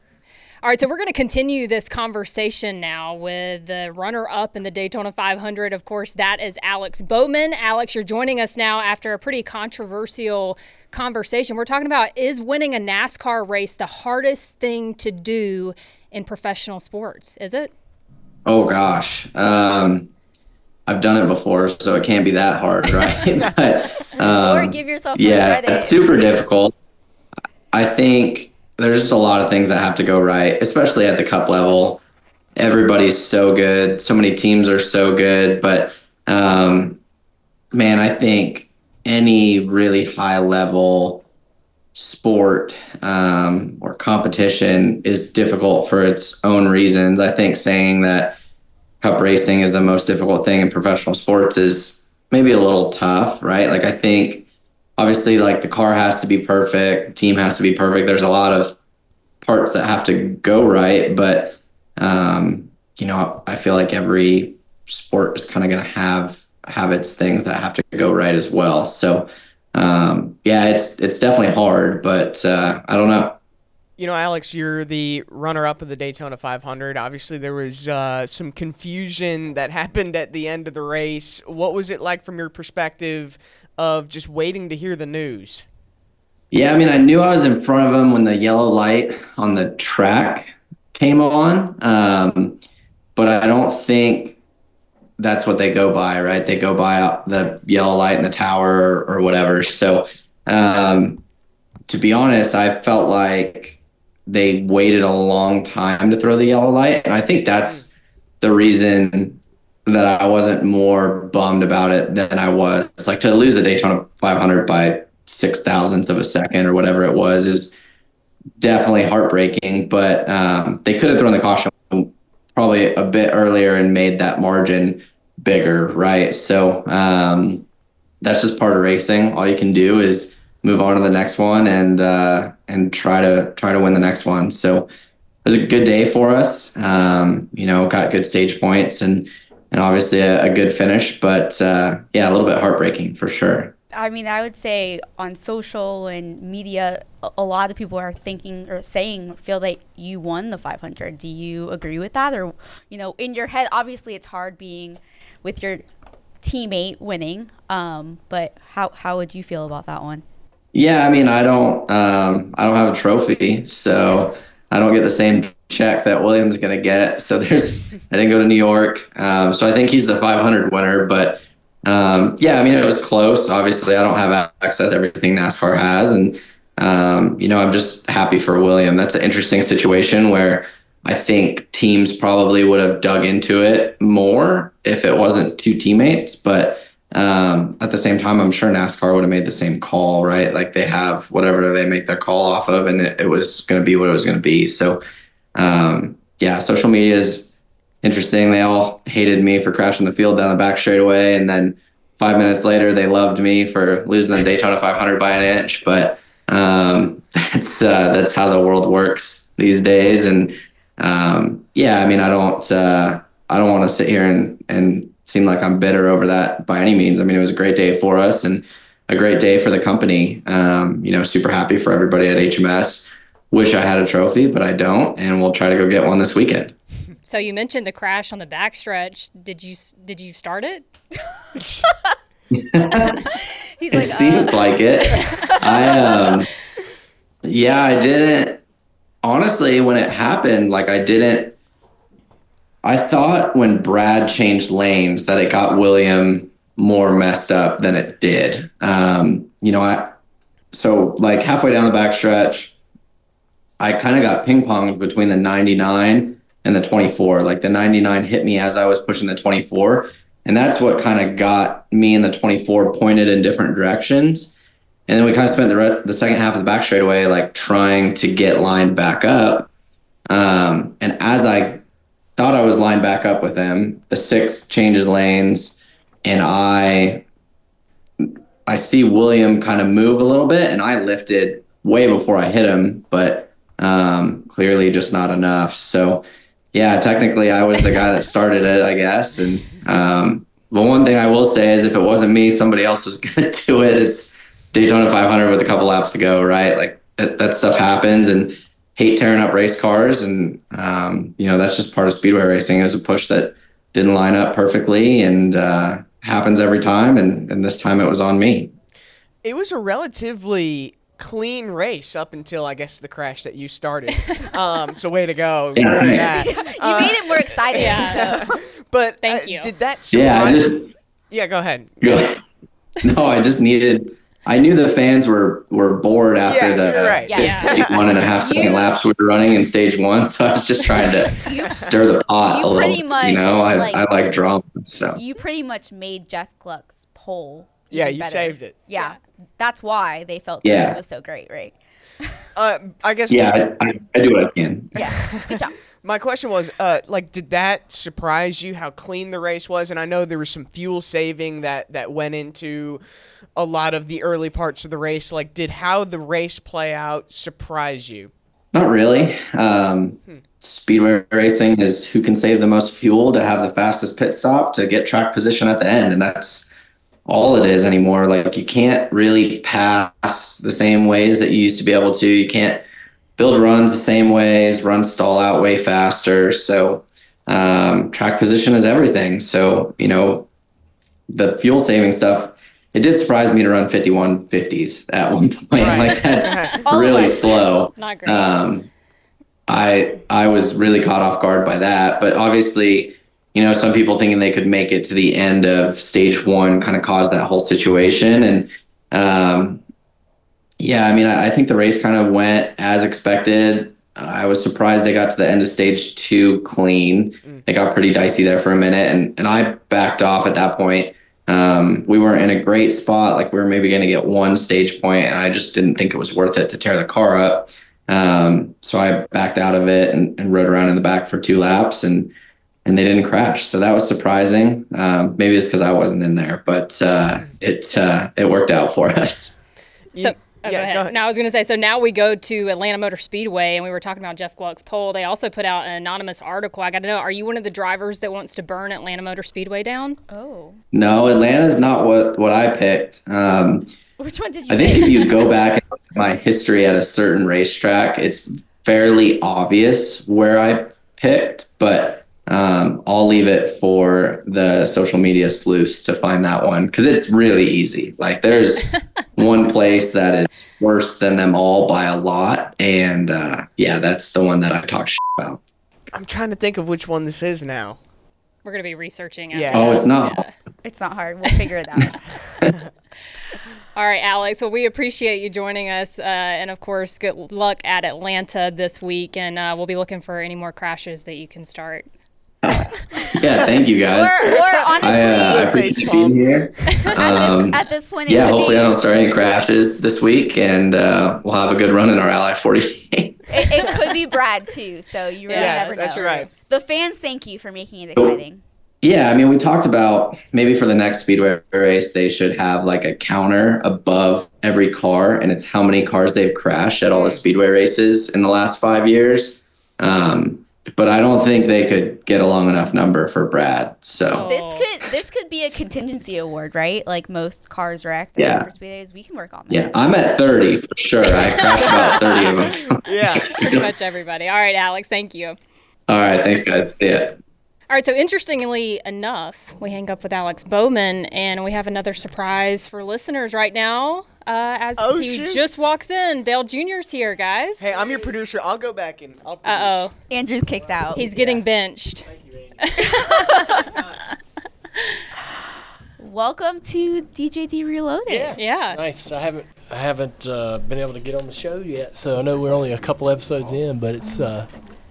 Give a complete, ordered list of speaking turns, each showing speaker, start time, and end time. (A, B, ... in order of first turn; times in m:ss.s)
0:00.6-0:17.7 A
0:18.4-0:20.1 B
0:20.9-0:26.7 B
0:24.1-0:26.1 C
0:27.7-0:32.0 B
0:32.6-0:37.0 B
0:37.7-0:41.2 B
0:41.9-0:48.4 B
0:49.0-0:54.4 B
0:55.0-0:58.7 B
0:59.4-1:13.4 B
1:14.0-1:25.7 D
1:26.5-1:32.6 B
1:33.1-1:34.4 B
1:35.2-1:41.2 B
1:41.9-1:57.7 B
1:58.6-2:07.6 B
2:08.2-2:14.9 B
2:15.4-2:23.7 B
2:23.9-2:35.8 C
2:36.4-2:40.2 C
2:40.7-3:15.0 B
3:15.6-3:17.5 B
3:18.0-3:46.7 B
3:47.2-3:50.8 A
3:51.8-3:52.1 C
3:52.5-3:53.2 B
3:53.3-3:56.4 C
3:53.9-3:56.5 B
3:57.4-3:58.6 B
3:59.2-4:01.5 B
4:02.8-4:10.1 B
4:10.7-4:12.7 B
4:13.8-4:24.5 B
4:25.1-4:29.7 B
4:30.3-4:31.8 B
4:32.4-4:37.2 B
4:38.2-5:08.7 B
5:09.4-5:20.7 D
5:15.7-5:16.3 B
5:16.1-5:18.6 C
5:17.7-5:18.2 A
5:19.2-5:19.7 A
5:20.1-5:20.8 B
5:21.3-5:22.2 D
5:22.0-5:22.4 B
5:23.0-5:35.2 B
5:26.4-5:28.2 D
5:27.2-5:29.0 C
5:27.4-5:27.7 A
5:31.0-5:34.0 C
5:35.1-5:42.5 C
5:37.9-5:38.8 D
5:40.6-5:41.0 B
5:42.6-5:43.7 D
5:43.3-5:45.0 B
5:44.9-5:45.8 C
5:45.2-5:53.0 D
5:53.6-5:58.3 D
5:58.7-6:06.7 B
6:07.2-6:12.8 B
6:13.4-6:20.5 B
6:21.3-6:28.9 B
6:25.8-6:26.8 D
6:26.4-6:26.7 A
6:26.8-6:27.5 C
6:28.0-6:28.5 A
6:29.7-6:39.8 B
6:40.8-7:02.3 B
7:02.8-7:09.6 B
7:10.1-7:20.2 A
7:10.1-7:11.1 D
7:20.3-7:20.8 C
7:20.9-7:23.9 B
7:24.2-7:25.6 C
7:24.7-7:45.6 B
7:46.1-7:48.0 D
7:48.6-7:50.5 A
7:49.5-7:50.0 D
7:49.7-7:50.4 B
7:50.8-7:52.2 C
7:53.9-8:02.1 A
8:02.6-8:13.6 B
8:04.1-8:07.1 D
8:04.2-8:05.8 C
8:07.1-8:09.1 C
8:13.5-8:18.6 C
8:15.5-8:16.3 A
8:15.5-8:16.5 D
8:19.0-8:34.4 B
8:27.1-8:27.4 D
8:34.3-8:34.8 A
8:34.4-8:40.4 C
8:38.4-8:38.7 B
8:39.7-8:42.8 B
8:41.6-8:42.1 C
8:41.6-8:42.5 A
8:41.8-8:43.8 D
8:43.5-8:45.6 A
8:46.1-8:47.4 B
8:47.9-8:57.9 A
8:55.0-8:55.6 D
8:57.8-9:00.1 D
8:57.9-8:58.3 E
8:59.6-9:00.1 A
9:00.3-9:01.3 C
9:00.9-9:01.6 E
9:01.1-9:03.9 A
9:02.2-9:03.0 E
9:03.0-9:03.8 C
9:06.2-9:08.6 C
9:08.3-9:14.7 E
9:08.5-9:09.0 A